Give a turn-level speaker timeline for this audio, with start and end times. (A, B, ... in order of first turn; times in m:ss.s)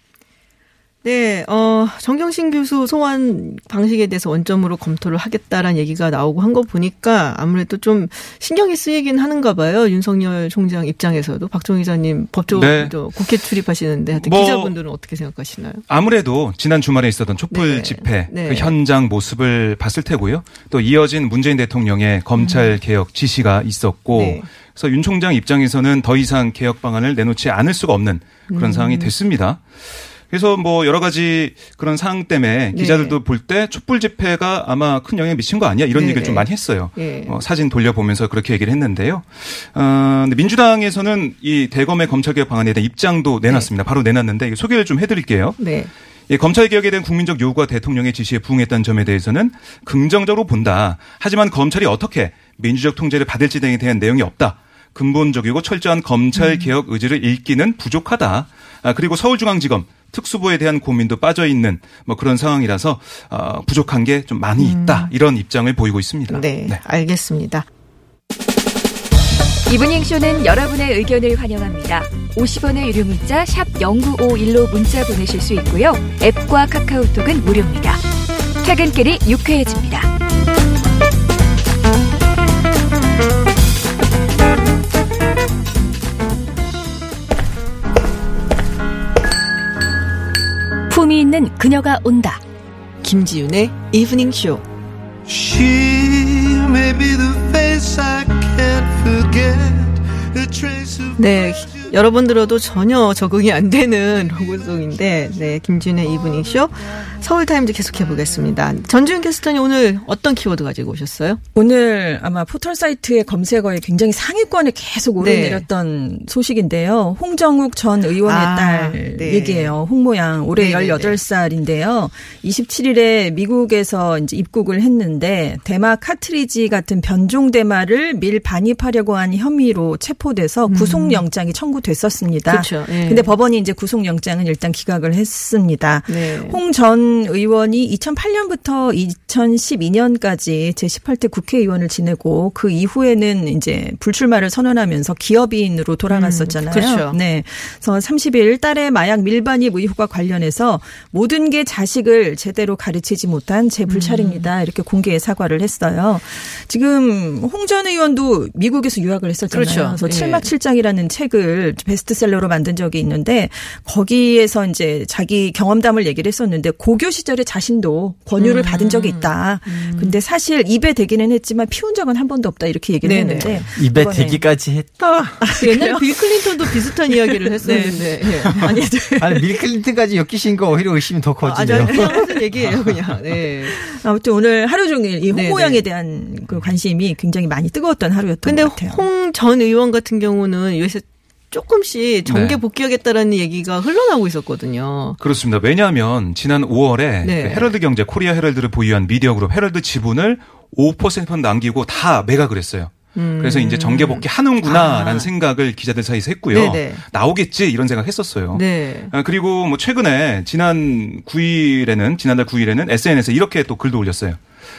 0:01.0-0:15.8 A
0:12.5-0:13.5 B
0:14.1-0:14.8 B
0:15.9-0:45.6 B
0:17.5-0:18.8 A
0:22.4-0:22.8 A
0:24.1-0:24.5 A
0:28.5-0:29.1 A
0:32.7-0:33.2 A
0:35.9-0:37.4 A
0:45.6-0:45.9 A
0:46.3-1:06.8 B
0:56.4-0:56.7 A
1:04.6-1:05.1 A
1:06.3-1:07.7 A
1:09.7-1:18.0 C
1:18.6-1:20.1 C
1:30.9-1:32.4 C
1:33.0-1:34.6 A
1:35.3-1:41.8 D
1:41.2-1:51.4 A
1:51.6-2:54.5 E
1:55.2-1:55.7 A
1:58.2-1:59.8 A
2:00.6-2:01.2 A
2:10.7-2:11.2 A
2:12.5-2:13.3 A
2:16.1-2:16.6 A
2:26.1-2:27.2 A
2:33.9-2:34.5 A
2:39.5-2:40.5 A
2:48.4-2:50.2 A
2:53.0-2:53.7 A
2:53.8-2:55.5 F
2:55.4-2:56.9 E
2:55.5-2:59.2 A
2:57.6-2:59.1 E
2:59.2-3:02.3 F
3:01.4-3:03.8 A
3:03.7-3:09.0 E
3:05.3-3:05.8 A
3:08.4-3:15.2 A
3:12.3-3:12.6 B
3:15.2-3:34.4 B
3:17.2-3:17.7 A
3:23.2-3:25.3 A
3:26.5-3:27.0 A
3:28.5-3:29.1 A